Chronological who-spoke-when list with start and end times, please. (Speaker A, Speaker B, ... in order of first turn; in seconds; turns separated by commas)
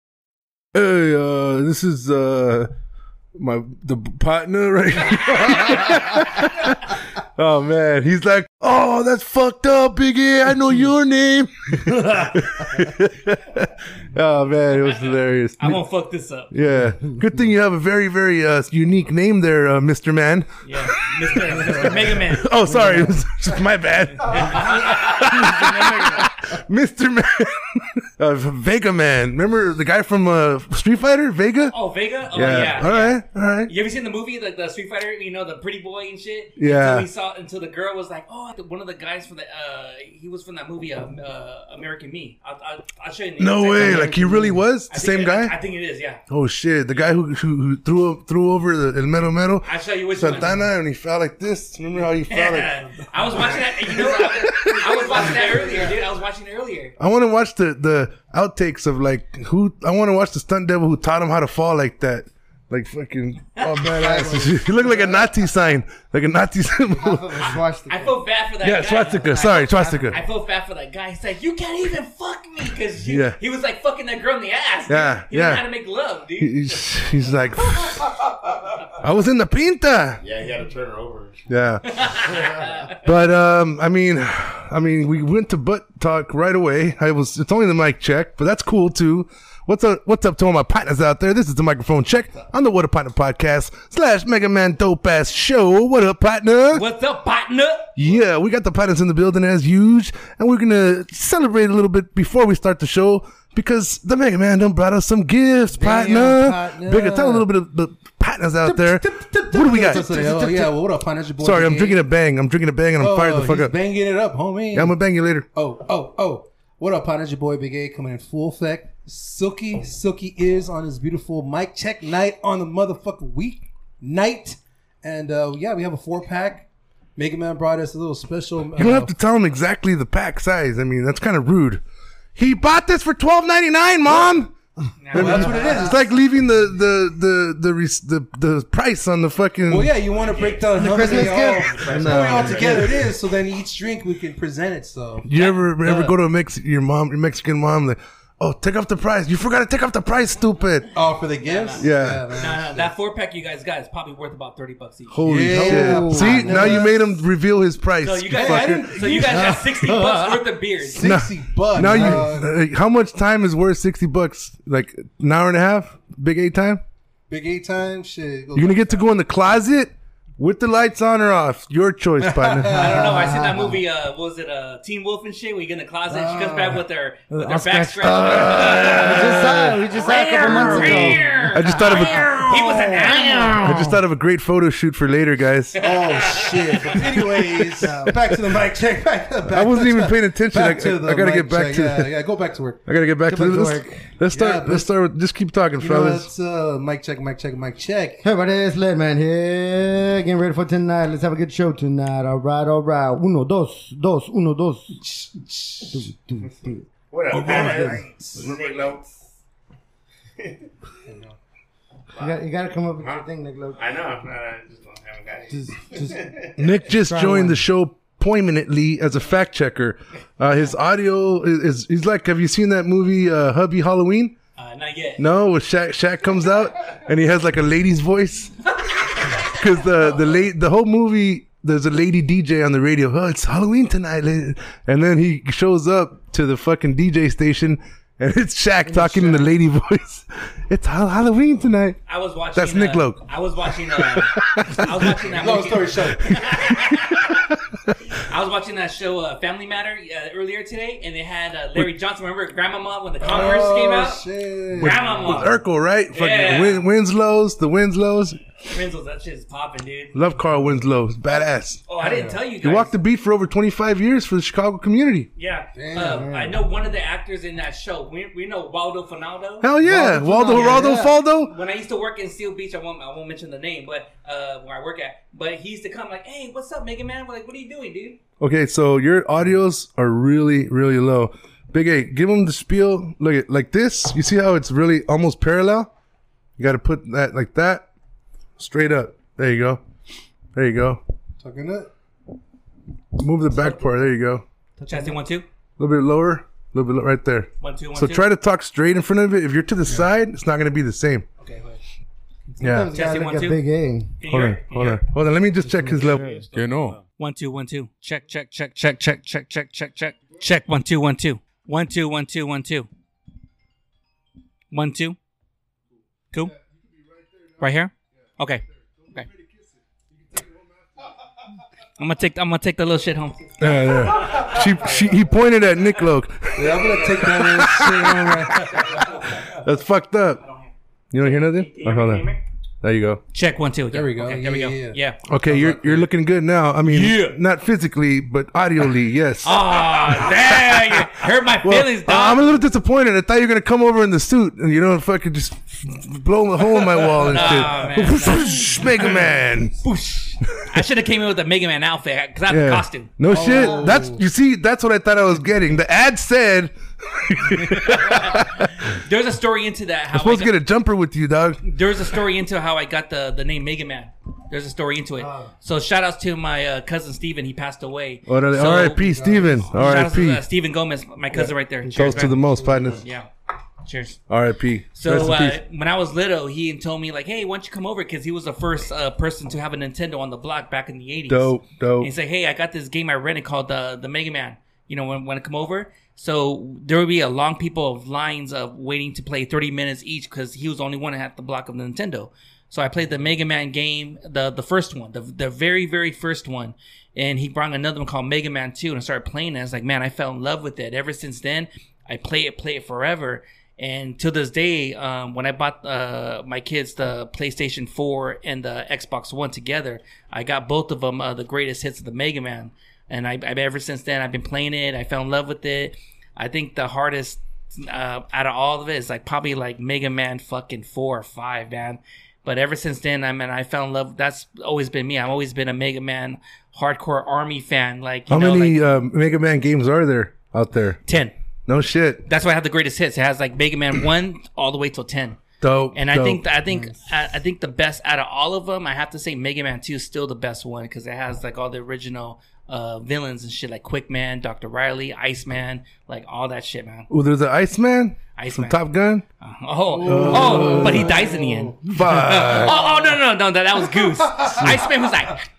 Speaker A: 0.7-2.7, Speaker A: 3.4-15.8, Speaker B: 15.6-16.5, Speaker A: 16.5-31.7, Speaker B: 20.6-22.5, Speaker C: 22.7-23.2, Speaker B: 24.3-26.3, Speaker B: 31.7-44.2, Speaker A: 32.3-33.7, Speaker A: 36.6-37.1, Speaker A: 43.4-45.5, Speaker C: 43.8-44.6, Speaker B: 44.9-46.2, Speaker A: 46.3-52.7, Speaker B: 49.6-50.6, Speaker B: 52.3-56.9, Speaker D: 54.0-55.8, Speaker C: 55.3-55.6, Speaker A: 57.0-67.6, Speaker C: 63.9-65.3, Speaker C: 66.9-68.2, Speaker B: 67.9-76.8, Speaker A: 68.6-70.2, Speaker A: 73.0-73.4, Speaker A: 74.9-75.6, Speaker A: 76.4-78.3, Speaker A: 78.9-80.2, Speaker E: 80.2-81.4, Speaker A: 81.5-82.0, Speaker B: 81.8-82.9, Speaker C: 82.3-82.6, Speaker A: 83.0-96.8, Speaker B: 96.7-97.9, Speaker A: 98.0-110.1, Speaker D: 105.7-107.5, Speaker C: 108.6-110.8, Speaker D: 108.7-112.0, Speaker A: 111.4-113.7, Speaker D: 113.0-115.0, Speaker A: 114.7-115.5, Speaker D: 115.5-129.1, Speaker A: 128.8-131.8, Speaker A: 132.3-134.5, Speaker B: 135.0-136.1, Speaker A: 135.1-139.9, Speaker D: 135.1-136.0, Speaker C: 135.2-135.6, Speaker D: 139.7-145.2, Speaker B: 140.2-141.8, Speaker C: 140.8-143.1, Speaker A: 141.9-142.9, Speaker A: 145.2-150.9, Speaker B: 145.3-145.7, Speaker D: 145.8-146.1, Speaker D: 150.9-152.9, Speaker B: 151.4-155.2, Speaker A: 151.8-152.3, Speaker A: 155.1-158.9, Speaker D: 155.2-157.2, Speaker C: 155.4-156.9, Speaker B: 158.0-161.2, Speaker D: 158.3-159.9, Speaker C: 159.2-160.5, Speaker D: 160.8-162.5, Speaker A: 161.0-166.8, Speaker C: 161.8-162.3, Speaker D: 167.3-169.0, Speaker A: 168.6-173.0, Speaker D: 172.2-173.1, Speaker C: 172.7-173.8, Speaker B: 172.7-183.6, Speaker D: 176.1-176.8, Speaker C: 177.3-184.0, Speaker A: 178.4-179.1, Speaker A: 180.5-182.5, Speaker D: 182.5-183.3, Speaker A: 183.6-185.8, Speaker B: 185.8-187.0, Speaker D: 185.8-192.8, Speaker C: 187.8-188.2, Speaker A: 189.5-192.1, Speaker A: 192.8-196.3, Speaker C: 193.2-194.1, Speaker D: 194.3-194.9, Speaker D: 195.8-198.2, Speaker C: 198.2-205.0, Speaker C: 205.9-209.0, Speaker E: 207.1-209.0, Speaker D: 207.3-208.1, Speaker E: 210.4-210.7, Speaker D: 211.1-211.3, Speaker C: 212.2-213.8, Speaker E: 213.0-216.6, Speaker C: 215.5-217.6, Speaker A: 216.6-224.3, Speaker B: 224.6-225.2, Speaker A: 225.2-242.0, Speaker D: 238.8-239.4, Speaker C: 238.9-239.5, Speaker B: 242.1-247.4, Speaker A: 242.5-243.2, Speaker A: 244.1-245.0, Speaker D: 245.0-246.3, Speaker A: 246.3-247.9, Speaker B: 248.1-254.2, Speaker D: 253.2-255.6, Speaker A: 254.7-258.4, Speaker B: 254.8-255.6, Speaker B: 256.1-256.9, Speaker B: 258.6-260.1, Speaker A: 260.1-261.8, Speaker B: 261.9-263.0, Speaker D: 262.0-262.4, Speaker A: 262.6-265.3, Speaker B: 265.4-269.7, Speaker D: 265.7-266.3, Speaker C: 265.9-266.6, Speaker A: 269.6-271.5, Speaker C: 269.8-271.1, Speaker D: 269.9-270.8, Speaker B: 270.5-278.2, Speaker A: 278.4-285.9, Speaker A: 286.6-287.9, Speaker A: 288.6-289.8, Speaker A: 290.5-291.0, Speaker D: 291.4-291.9, Speaker A: 293.1-294.4, Speaker B: 294.9-295.4, Speaker A: 295.8-301.3, Speaker B: 297.6-298.2, Speaker D: 301.4-301.8, Speaker D: 302.6-302.9, Speaker A: 302.6-302.9, Speaker C: 302.6-304.2, Speaker B: 302.9-303.6, Speaker B: 304.2-305.0, Speaker A: 304.2-306.2, Speaker C: 305.6-306.4, Speaker E: 305.8-307.1, Speaker D: 306.5-307.0, Speaker B: 307.2-312.9, Speaker B: 314.7-315.2, Speaker A: 317.1-317.5, Speaker B: 317.6-319.3, Speaker A: 319.0-320.9, Speaker B: 322.0-324.9, Speaker A: 323.6-330.4, Speaker D: 326.6-329.0, Speaker B: 326.7-327.4, Speaker B: 328.6-329.6, Speaker B: 330.4-332.4, Speaker A: 331.1-332.3, Speaker A: 332.8-333.2, Speaker B: 333.3-335.2, Speaker D: 333.9-336.1, Speaker A: 335.3-341.0, Speaker B: 336.9-337.4, Speaker B: 339.4-342.5, Speaker A: 341.6-349.8, Speaker B: 347.2-349.3, Speaker B: 349.8-353.1, Speaker A: 352.5-359.0, Speaker D: 353.3-354.2, Speaker C: 353.3-354.0, Speaker B: 357.8-360.5, Speaker A: 360.1-361.6, Speaker B: 361.6-373.3, Speaker C: 365.2-365.5, Speaker A: 368.3-370.4, Speaker D: 369.1-369.6, Speaker C: 371.9-372.9, Speaker A: 371.9-373.1, Speaker B: 373.8-374.2, Speaker A: 374.3-375.6, Speaker B: 374.9-428.8, Speaker A: 381.3-382.1, Speaker A: 428.3-431.0, Speaker B: 431.1-431.3, Speaker A: 431.6-432.2, Speaker B: 432.2-435.4, Speaker A: 435.6-436.4, Speaker B: 435.9-447.1, Speaker A: 447.1-449.2, Speaker B: 448.4-448.8, Speaker B: 449.4-455.5, Speaker D: 449.9-452.7, Speaker A: 450.0-451.2, Speaker A: 451.9-452.7, Speaker A: 454.5-454.8